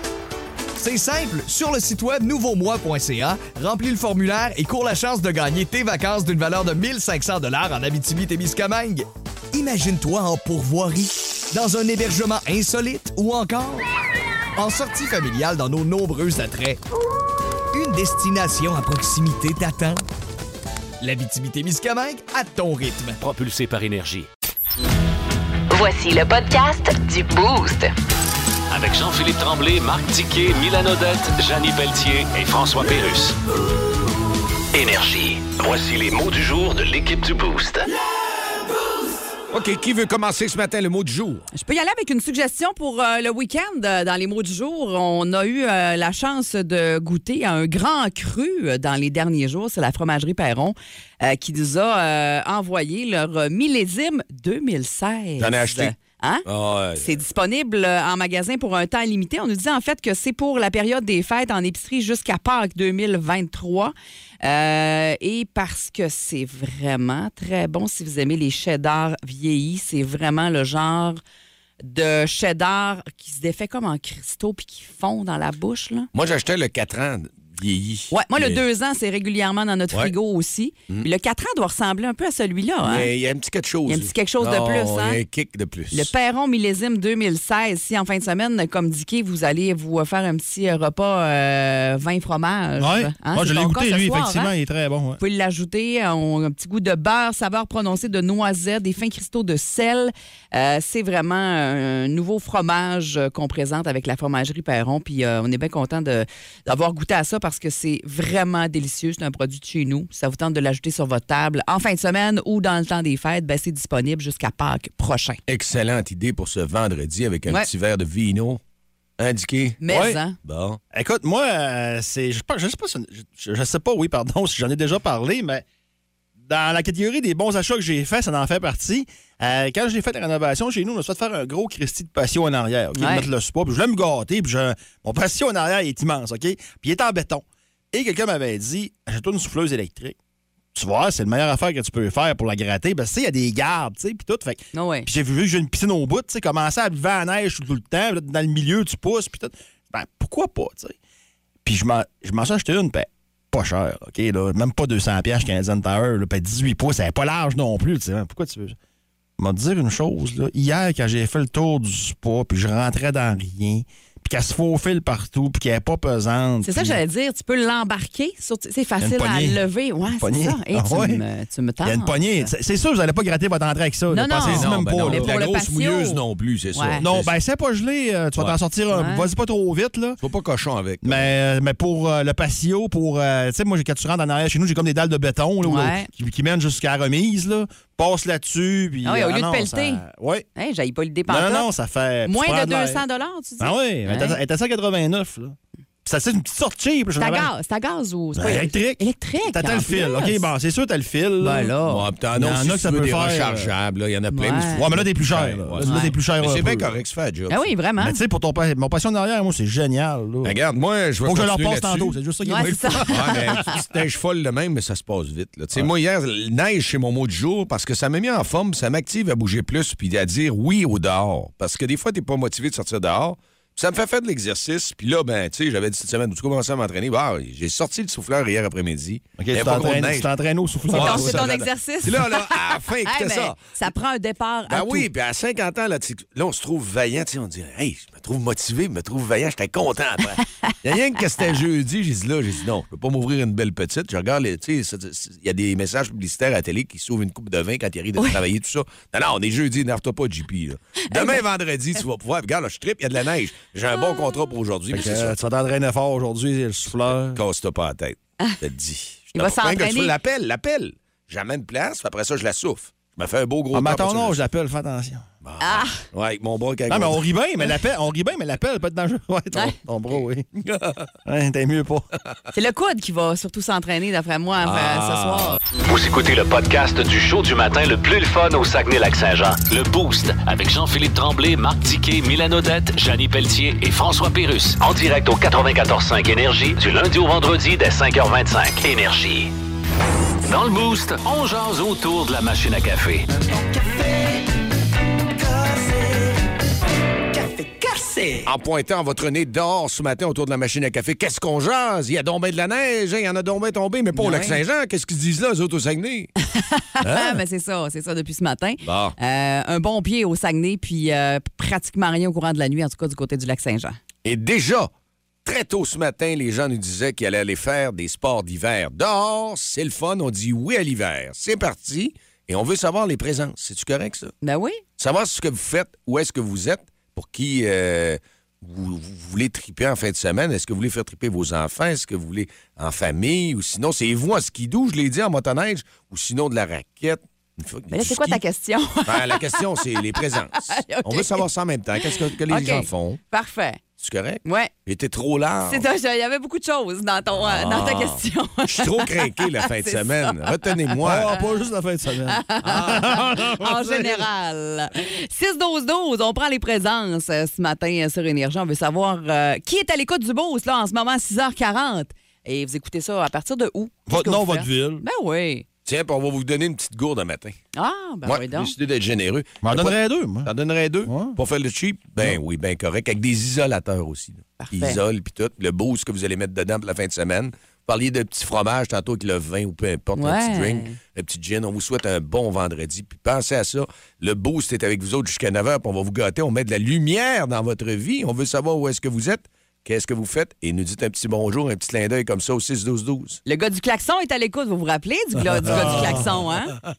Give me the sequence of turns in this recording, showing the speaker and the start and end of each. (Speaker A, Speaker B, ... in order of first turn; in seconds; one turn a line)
Speaker A: 0.8-13.8
Speaker A: 14.6-16.8
Speaker A: 17.7-20.0
Speaker A: 21.0-23.2
Speaker B: 23.2-24.2
Speaker C: 25.7-27.9
Speaker B: 28.7-33.4
Speaker B: 34.7-37.9
Speaker D: 39.5-41.4
Speaker E: 41.5-71.2
Speaker D: 55.4-55.9
Speaker D: 56.5-57.1
Speaker E: 71.8-76.1
Speaker D: 76.1-78.6
Speaker E: 78.1-83.1
Speaker D: 82.8-86.1
Speaker E: 83.9-85.2
Speaker E: 85.9-94.5
Speaker F: 92.8-95.2
Speaker E: 95.2-115.4
Speaker D: 115.5-118.6
Speaker D: 119.2-120.8
Speaker E: 119.8-120.4
Speaker F: 119.9-120.2
Speaker F: 120.9-125.6
Speaker F: 126.4-140.2
Speaker E: 132.9-133.3
Speaker F: 140.7-150.9
Speaker E: 144.7-145.1
Speaker F: 151.6-158.8
Speaker F: 159.4-167.0
Speaker E: 166.6-172.5
Speaker F: 169.0-169.6
Speaker F: 170.2-171.2
Speaker F: 171.8-175.3
Speaker E: 174.1-176.2
Speaker D: 174.4-177.3
Speaker E: 176.7-177.1
Speaker F: 177.0-180.2
Speaker E: 178.9-179.3
Speaker D: 180.2-181.3
Speaker F: 181.0-190.5
Speaker E: 185.6-186.1
Speaker E: 189.0-190.0
Speaker E: 190.6-191.7
Speaker F: 191.3-193.0
Speaker E: 192.2-194.4
Speaker F: 193.6-197.5
Speaker E: 197.2-200.4
Speaker F: 198.3-201.7
Speaker E: 201.4-202.1
Speaker D: 201.8-207.7
Speaker F: 202.3-203.7
Speaker E: 204.3-204.9
Speaker F: 204.8-206.9
Speaker E: 205.8-206.1
Speaker E: 207.5-208.2
Speaker F: 208.0-210.6
Speaker D: 210.4-212.2
Speaker F: 211.2-213.6
Speaker E: 212.4-213.8
Speaker D: 213.1-230.3
Speaker F: 229.4-231.6
Speaker D: 230.9-233.6
Speaker E: 230.9-235.1
Speaker D: 234.7-255.3
Speaker E: 251.1-251.4
Speaker F: 254.9-257.4
Speaker D: 257.3-264.4
Speaker E: 259.3-260.1
Speaker F: 263.7-265.2
Speaker D: 265.4-267.2
Speaker E: 265.6-266.0
Speaker F: 266.9-270.5
Speaker D: 270.6-271.0
Speaker F: 271.2-272.1
Speaker E: 272.5-275.6
Speaker D: 274.6-275.6
Speaker B: 275.8-289.5
Speaker B: 290.4-293.3
Speaker D: 298.4-306.3
Speaker E: 304.1-304.6
Speaker E: 306.5-314.0
Speaker D: 307.0-307.4
Speaker D: 308.8-309.1
Speaker D: 314.2-314.9
Speaker D: 315.4-324.3
Speaker E: 324.4-324.8
Speaker D: 325.0-338.4
Speaker E: 337.9-341.5
Speaker D: 339.1-343.2
Speaker E: 342.0-343.8
Speaker D: 344.0-345.8
Speaker E: 344.4-344.7
Speaker E: 345.6-351.5
Speaker D: 347.4-351.3
Speaker F: 351.0-354.2
Speaker E: 352.3-365.6
Speaker D: 352.6-353.1
Speaker F: 364.1-365.0
Speaker D: 365.9-367.6
Speaker E: 367.8-368.7
Speaker D: 368.2-393.4
Speaker F: 369.6-370.5
Speaker F: 371.1-371.4
Speaker E: 374.6-375.0
Speaker E: 380.1-381.0
Speaker E: 393.4-396.8
Speaker F: 395.6-396.3
Speaker D: 395.6-396.2